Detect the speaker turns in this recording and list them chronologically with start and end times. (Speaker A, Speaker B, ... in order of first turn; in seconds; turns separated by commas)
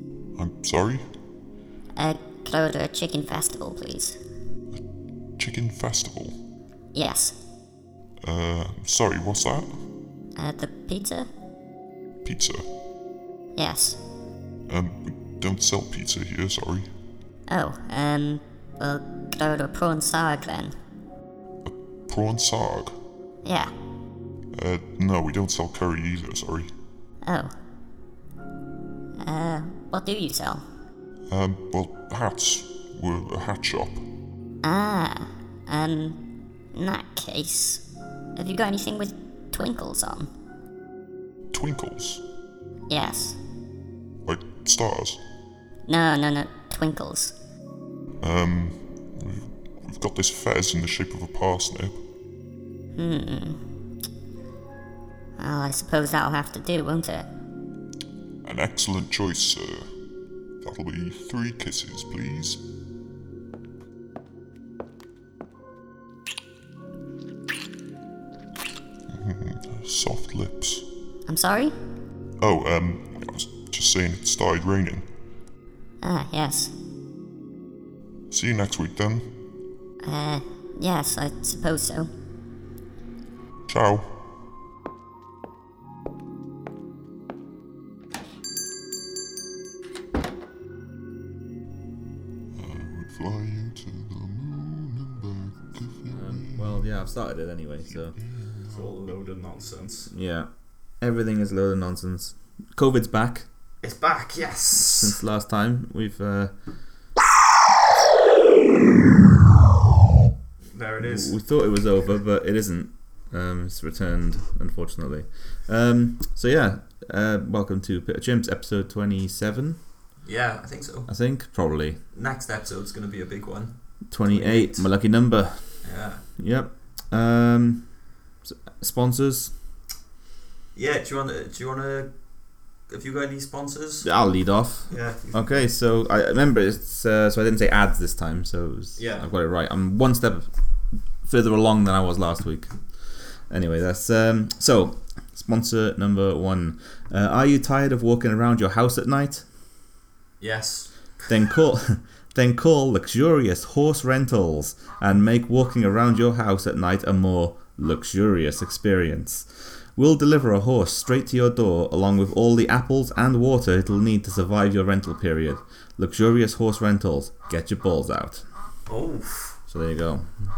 Speaker A: 0.3-1.1, Speaker B: 2.0-4.2, Speaker A: 5.3-6.4, Speaker B: 6.9-7.4, Speaker A: 8.2-9.9, Speaker B: 10.4-11.3, Speaker A: 12.2-12.7, Speaker B: 13.6-14.0, Speaker A: 14.7-16.9, Speaker B: 17.5-20.8, Speaker A: 21.6-22.9, Speaker B: 23.4-23.7, Speaker A: 24.5-26.7, Speaker B: 27.2-27.6, Speaker B: 29.2-30.6, Speaker A: 31.3-34.1, Speaker B: 34.6-37.8, Speaker B: 38.4-40.3, Speaker A: 41.5-42.2, Speaker B: 42.9-43.4, Speaker A: 44.2-45.2, Speaker B: 45.9-47.4, Speaker A: 48.2-52.0, Speaker B: 53.0-53.6, Speaker B: 55.4-57.3, Speaker A: 58.4-59.9, Speaker A: 60.6-62.6, Speaker A: 69.1-70.9, Speaker B: 71.3-71.8, Speaker A: 72.4-75.1, Speaker B: 76.0-76.7, Speaker A: 78.3-79.3, Speaker B: 80.0-82.1, Speaker A: 83.7-84.2, Speaker A: 92.5-97.0, Speaker C: 96.1-98.2, Speaker A: 97.9-99.2, Speaker D: 98.7-100.1, Speaker C: 100.1-103.5, Speaker D: 103.8-105.2, Speaker C: 104.9-106.5, Speaker D: 110.7-111.4, Speaker C: 111.0-119.8, Speaker D: 120.2-121.1, Speaker C: 121.1-122.0, Speaker D: 122.1-125.0, Speaker C: 124.1-129.5, Speaker D: 125.6-126.3, Speaker D: 130.8-134.1, Speaker C: 134.0-140.5, Speaker D: 134.9-135.7, Speaker D: 139.0-139.3, Speaker C: 141.2-149.5, Speaker D: 150.4-151.2, Speaker C: 151.3-168.5, Speaker D: 168.9-169.6, Speaker C: 169.7-170.5